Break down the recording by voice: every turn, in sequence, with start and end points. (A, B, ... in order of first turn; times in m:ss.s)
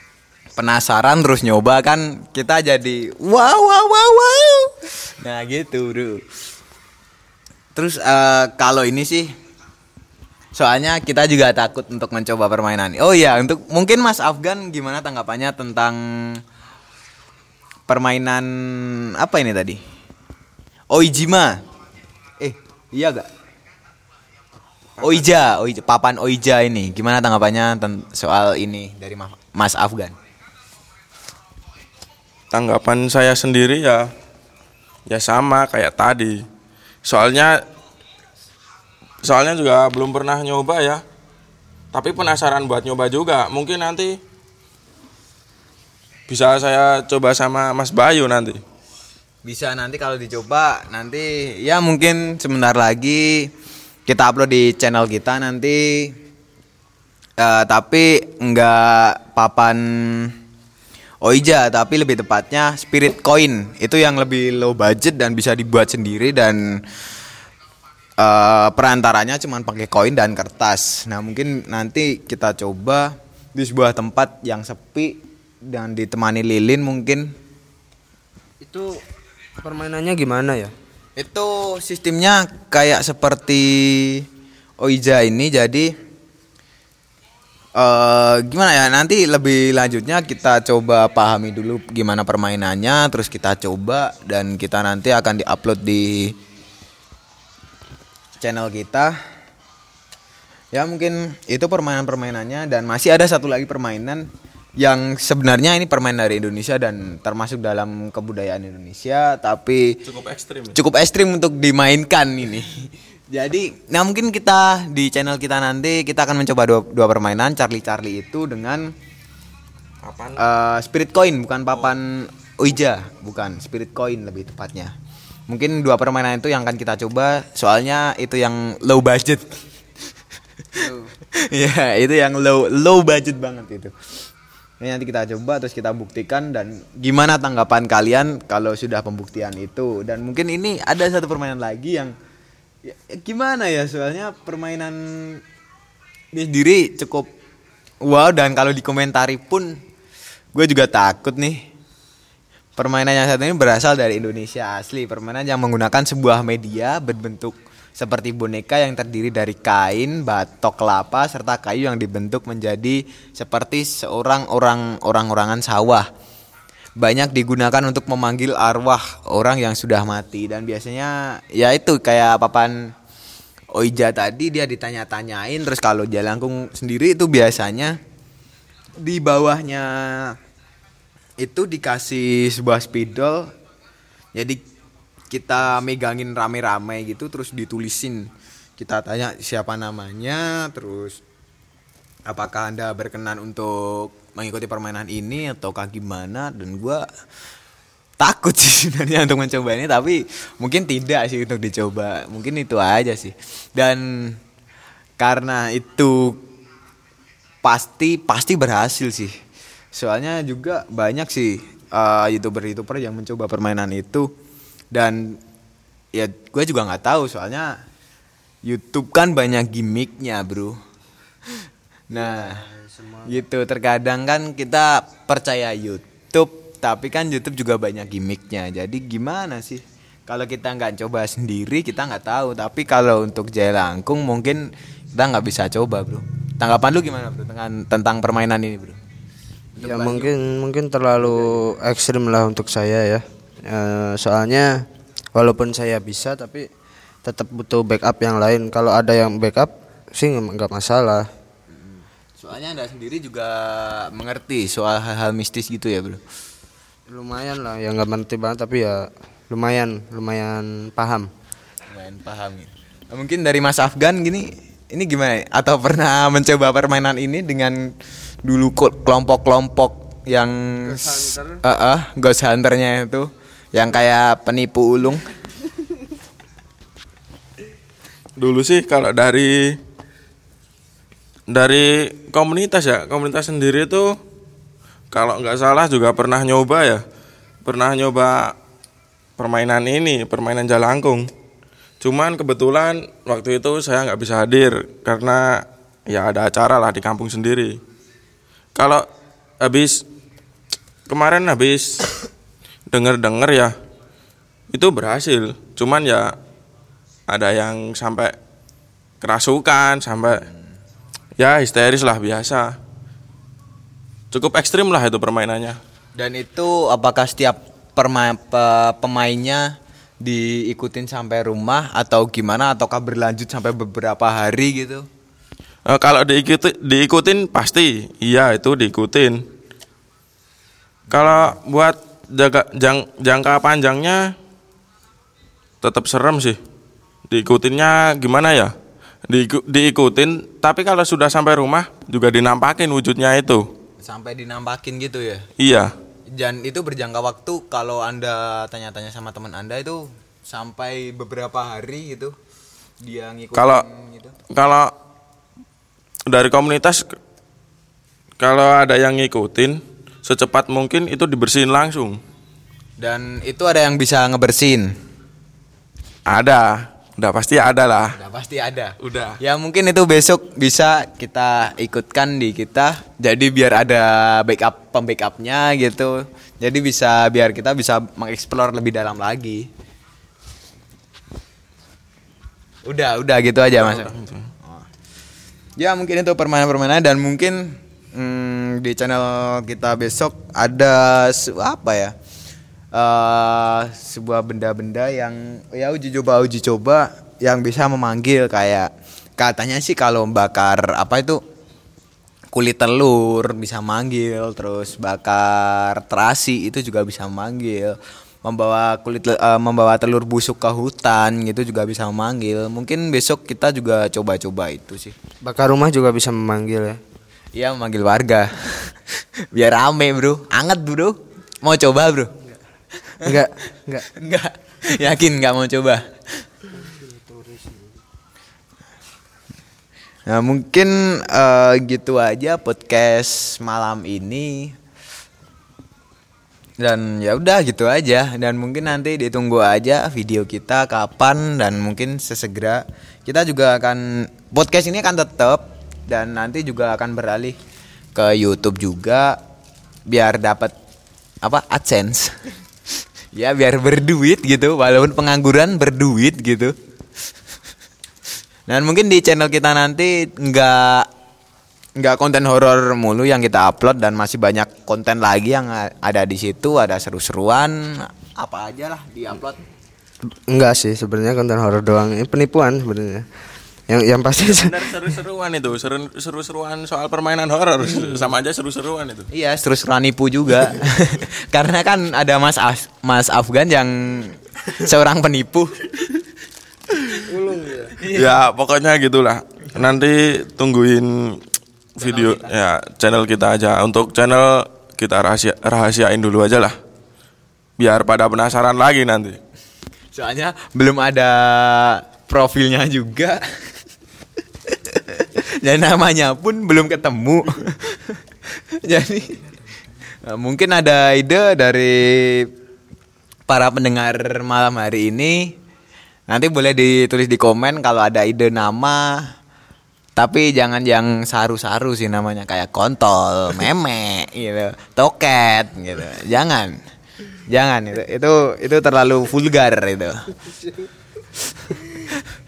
0:00.6-0:06.2 A
0:07.8-0:09.3 A
0:10.6-0:16.4 A
0:17.9-0:19.8 A
0:20.9-0:21.6 A
0:22.4-0:23.3 A
0:25.0-0:25.3 B
0:25.0-0:30.2 A
0:32.5-0:34.1 B
0:35.1-0:36.4 B
0:37.0-0:37.6 B
0:39.2-0:41.0 B
0:41.9-0:44.2 B
0:46.3-0:48.6 B
0:49.4-0:53.5 A
0:54.1-0:56.1 A
0:57.4-1:00.3 A
1:01.2-1:06.6 A
1:08.2-1:17.3 A
1:18.6-1:19.0 C
1:19.6-1:20.7 C
1:21.2-1:24.2 A
1:24.8-1:25.9 A
1:27.8-1:36.3 A
1:38.4-1:39.2 A
1:40.7-1:44.3 A
1:44.8-1:50.0 A
1:50.0-1:50.8 B
1:50.8-1:58.9 A
2:00.0-2:00.4 B
2:00.4-2:04.9 A
2:05.5-2:09.6 A
2:10.8-2:11.1 C
2:11.4-2:13.9 A
2:14.8-2:22.2 A
2:22.8-2:25.4 A
2:26.3-2:27.3 A
2:28.0-2:29.8 A
2:30.6-2:31.6 A
2:32.8-2:46.1 A
2:47.0-2:52.9 A
2:53.7-2:58.0 A
2:59.0-3:00.4 A
3:01.4-3:03.5 A
3:04.4-3:04.6 A
3:05.3-3:11.2 A
3:12.3-3:17.0 A
3:18.2-3:24.4 A
3:25.2-3:26.4 A
3:27.6-3:29.3 A
3:30.0-3:34.3 A
3:34.9-3:35.4 A
3:36.1-3:37.7 A
3:38.7-3:40.8 A
3:41.5-3:42.6 A
3:42.1-3:43.4 C
3:43.3-3:59.0 A
3:59.8-4:00.4 A
3:59.8-4:04.8 C
4:05.4-4:06.7 C
4:07.2-4:11.3 C
4:11.7-4:16.2 A
4:17.1-4:21.3 C
4:21.9-4:27.9 A
4:28.4-4:35.3 A
4:30.9-4:31.6 C
4:38.4-4:39.8 B
4:41.5-4:44.2 B
4:45.1-4:47.0 B
4:47.6-4:48.5 B
4:49.4-4:51.3 B
4:52.0-4:57.8 B
4:58.8-4:59.0 B
4:59.6-5:00.0 B
5:01.1-5:02.1 B
5:02.9-5:03.7 B
5:04.7-5:06.3 B
5:07.3-5:08.3 B
5:09.2-5:10.4 B
5:11.4-5:12.7 B
5:14.3-5:15.8 B
5:16.2-5:25.1 A
5:25.9-5:29.4 B
5:31.1-5:31.6 A
5:31.1-5:34.3 B
5:35.8-5:36.6 B
5:37.3-5:38.7 B
5:39.3-5:43.7 B
5:44.0-5:45.5 A
5:45.6-5:45.9 B
5:46.3-5:52.4 A
5:53.0-5:54.4 A
5:53.6-5:53.8 B
5:54.5-5:54.9 B
5:56.3-5:57.1 B
5:58.4-6:02.2 B
6:03.0-6:04.9 A
6:06.3-6:08.2 B
6:08.1-6:19.7 A
6:09.0-6:09.4 B
6:22.9-6:24.9 A
6:23.8-6:24.5 B
6:25.8-6:32.2 A
6:32.9-6:41.4 A
6:42.5-6:55.2 A
6:55.4-6:57.0 C
6:57.6-6:59.0 A
6:59.5-7:02.3 A
7:03.0-7:03.4 A
7:03.2-7:04.1 C
7:04.0-7:06.5 A
7:06.8-7:08.0 C
7:10.3-7:14.8 A
7:16.8-7:27.6 A
7:28.2-7:29.4 A
7:30.1-7:30.7 A
7:31.4-7:32.5 A
7:33.4-7:36.8 A
7:38.7-7:41.1 A
7:42.0-7:49.6 A
7:50.5-7:53.3 C
7:53.9-7:55.1 C
7:54.4-7:59.3 B
7:59.3-8:05.8 A
8:07.3-8:08.0 C
8:08.0-8:08.4 A
8:08.0-8:11.4 B
8:12.0-8:12.7 A
8:12.0-8:16.8 B
8:17.8-8:19.4 B
8:20.1-8:23.4 A
8:24.7-8:29.4 A
8:30.3-8:32.5 A
8:33.5-8:35.5 A
8:36.3-8:39.3 A
8:40.2-8:46.8 A
8:47.5-8:50.2 A
8:51.6-8:52.2 A